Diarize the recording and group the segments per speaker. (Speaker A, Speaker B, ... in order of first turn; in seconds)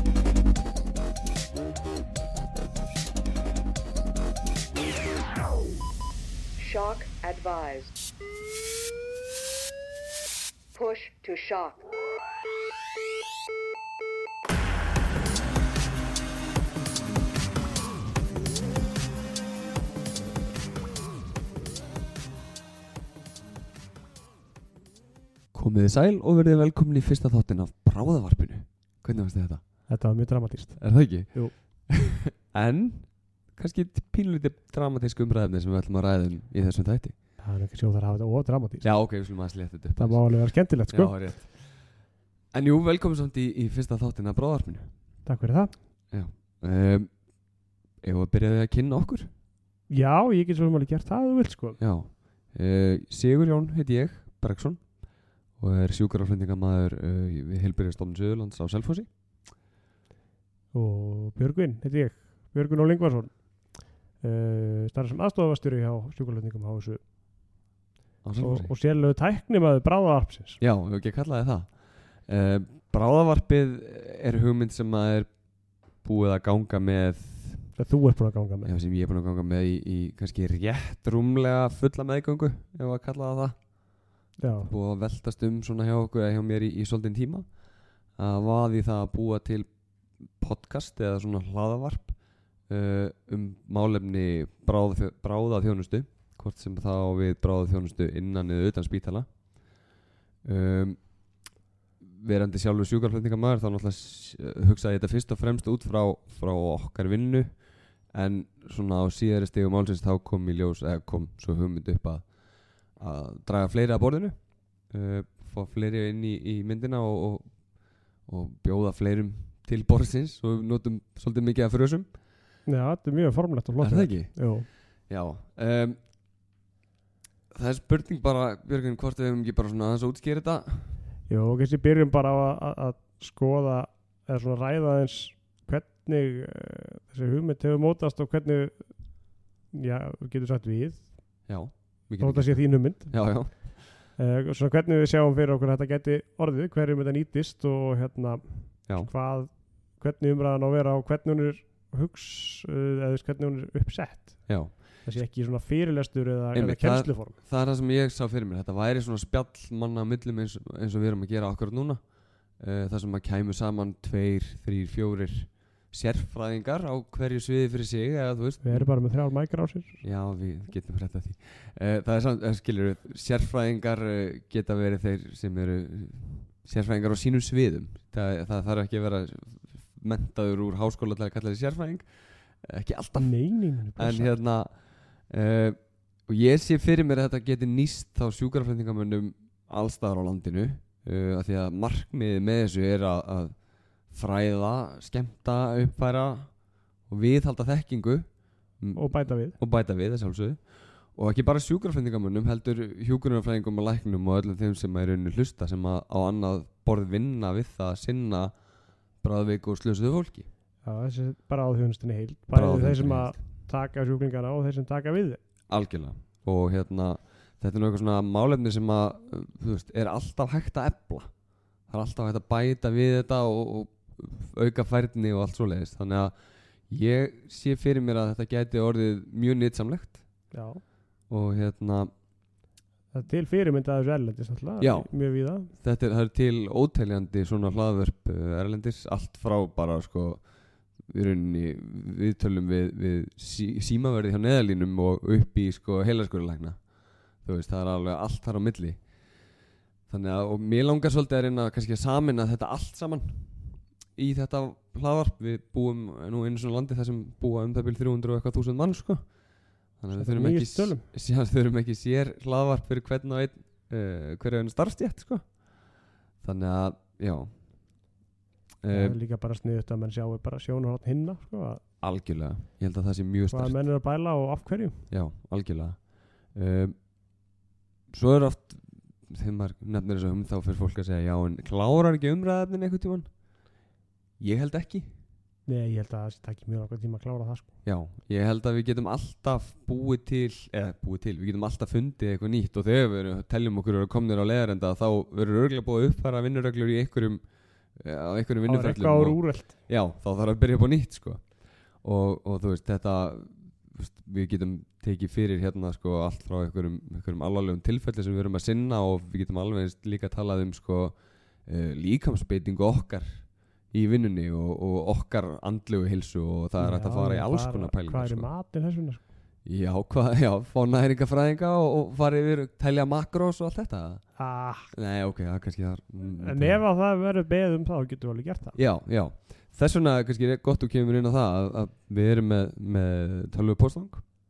Speaker A: 6.5-7.9, 10.7-11.8
Speaker B: 25.5-29.6, 30.8-37.1, 38.8-40.3, 40.9-41.7, 42.5-44.9, 46.1-47.1, 48.0-49.3, 51.8-54.8, 55.6-59.1, 68.2-68.7, 70.6-71.7, 72.3-75.3, 76.0-77.7, 78.6-83.5, 84.6-87.5, 88.2-89.7, 90.4-92.2, 92.7-99.3, 100.4-101.0, 102.0-107.5, 108.1-112.2, 113.0-114.3, 114.9-117.5, 118.3-122.1, 123.8-124.4, 125.1-126.0, 127.5-130.9, 141.5-143.7, 154.5-154.7, 156.5-162.0, 162.6-168.9, 170.0-182.0, 182.6-183.3, 183.9-184.7, 185.3-185.8, 186.3-193.5, 194.1-196.5, 197.1-198.3, 198.8-200.6, 201.1-208.5, 209.2-210.4, 212.5-213.4, 215.7-221.3, 221.9-226.3, 226.9-230.2, 231.3-232.1, 234.8-235.1, 235.7-240.4, 241.1-246.8, 247.4-249.0, 250.1-259.2, 260.0-265.5, 266.4-267.5, 268.8-269.2, 272.0-273.8, 275.1-276.0, 276.5-276.9, 278.1-283.3, 284.4-285.1, 287.8-297.4, 297.9-301.4, 302.0-311.1, 311.6-318.5, 319.6-324.2, 324.9-326.8, 328.7-334.2
Speaker C: 29.9-31.5, 37.4-38.9, 40.0-41.2, 45.2-45.7, 49.9-51.8, 60.7-63.3, 64.2-67.0, 68.4-70.6, 77.8-78.7, 84.4-84.7, 122.7-124.7, 131.3-138.9, 139.7-141.1, 142.2-143.4, 144.2-157.4, 168.6-170.0, 183.2-184.3, 198.9-199.6, 210.8-215.4, 230.5-230.8, 233.1-235.7, 260.1-261.0, 268.9-271.8, 273.5-275.1, 285.6-287.7, 298.6-299.8, 316.8-319.2, 324.4-324.9, 326.3-328.8